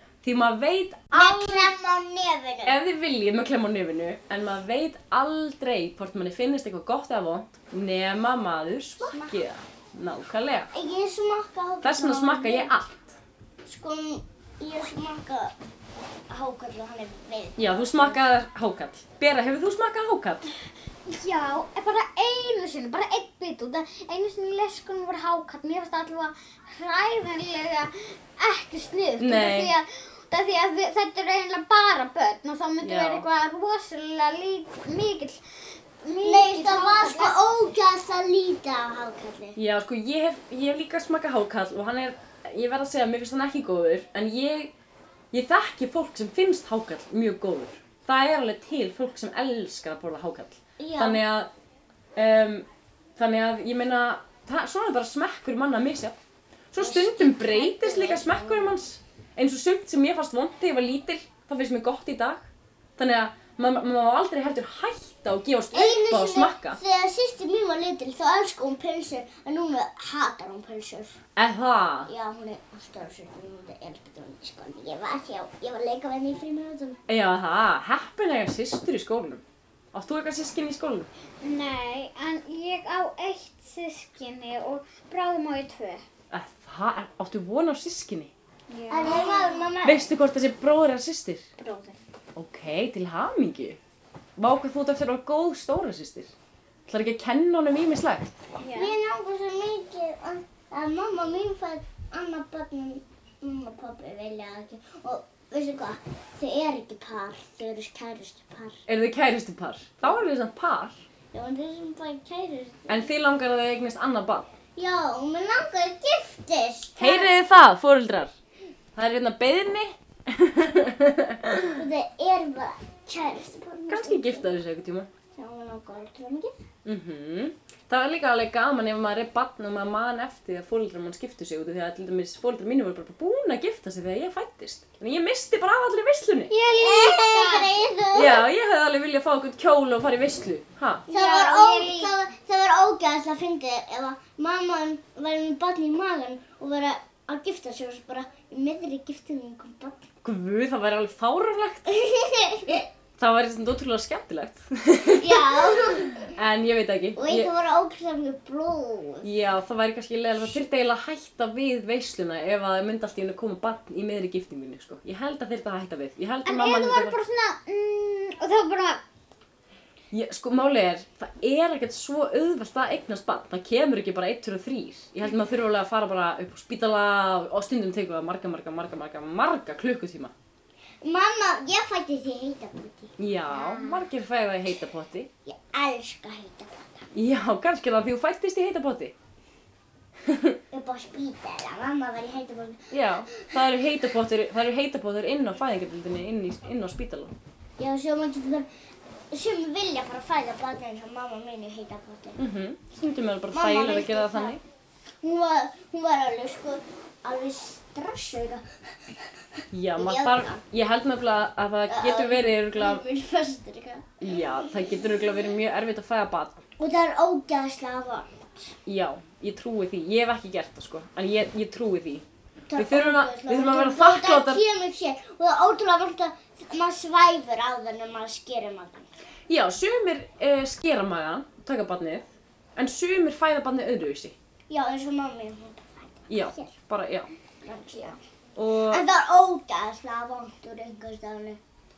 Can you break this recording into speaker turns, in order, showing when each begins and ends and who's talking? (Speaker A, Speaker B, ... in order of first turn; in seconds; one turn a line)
Speaker A: 0.2-1.7
Speaker B: 1.1-2.8
Speaker A: 2.6-10.7
Speaker B: 9.0-9.4
Speaker B: 10.7-12.7
Speaker A: 11.8-13.2
Speaker B: 13.7-15.5
Speaker B: 16.3-18.2
Speaker A: 17.6-20.5
Speaker C: 21.1-35.4
Speaker A: 29.2-29.7
Speaker A: 32.8-33.2
Speaker C: 36.0-37.4
Speaker B: 36.2-39.6
Speaker A: 39.5-44.7
Speaker A: 45.3-51.5
Speaker B: 50.8-51.2
Speaker A: 52.1-56.1
Speaker A: 56.7-62.5
Speaker B: 56.8-58.8
Speaker A: 63.0-66.8
Speaker B: 65.7-71.2
Speaker A: 71.4-72.1
Speaker B: 72.1-77.0
Speaker A: 77.1-79.4
Speaker A: 79.9-81.1
Speaker C: 81.4-86.0
Speaker A: 86.3-88.3
Speaker C: 88.7-89.7
Speaker B: 88.9-90.1
Speaker A: 89.8-91.5
Speaker B: 91.6-92.0
Speaker A: 92.3-93.8
Speaker A: 94.4-96.3
Speaker A: 96.9-98.3
Speaker C: 98.6-98.9
Speaker B: 98.7-108.8
Speaker A: 108.8-111.0
Speaker B: 111.3-113.1
Speaker A: 112.9-114.5
Speaker B: 114.8-117.3
Speaker A: 117.0-118.3
Speaker A: 119.0-121.8
Speaker B: 121.7-124.5
Speaker A: 123.9-125.1
Speaker B: 125.3-126.5
Speaker A: 126.8-136.5
Speaker C: 136.5-137.7
Speaker B: 136.8-138.4
Speaker A: 138.1-141.1
Speaker C: 141.1-142.1
Speaker B: 141.1-150.1
Speaker A: 150.2-151.9
Speaker B: 151.9-152.9
Speaker A: 153.2-157.5
Speaker B: 155.2-156.3
Speaker B: 157.2-159.3
Speaker A: 159.2-167.2
Speaker C: 166.4-169.0
Speaker A: 170.1-180.3
Speaker B: 181.0-184.1
Speaker A: 183.2-185.3
Speaker B: 185.4-187.1
Speaker A: 187.1-189.1
Speaker A: 190.3-190.6
Speaker B: 190.7-192.8
Speaker A: 192.9-197.3
Speaker B: 197.8-198.7
Speaker B: 199.3-202.4
Speaker A: 202.4-204.6
Speaker B: 203.5-204.6
Speaker B: 205.2-208.6
Speaker A: 209.7-213.0
Speaker B: 209.9-210.6
Speaker B: 211.9-214.1
Speaker A: 214.2-216.6
Speaker B: 216.8-218.7
Speaker A: 218.8-222.2
Speaker B: 222.7-229.1
Speaker A: 222.8-224.6
Speaker A: 229.5-234.3
Speaker B: 234.7-236.7
Speaker A: 236.3-237.3
Speaker B: 237.6-238.2
Speaker A: 238.6-239.0
Speaker B: 238.9-241.6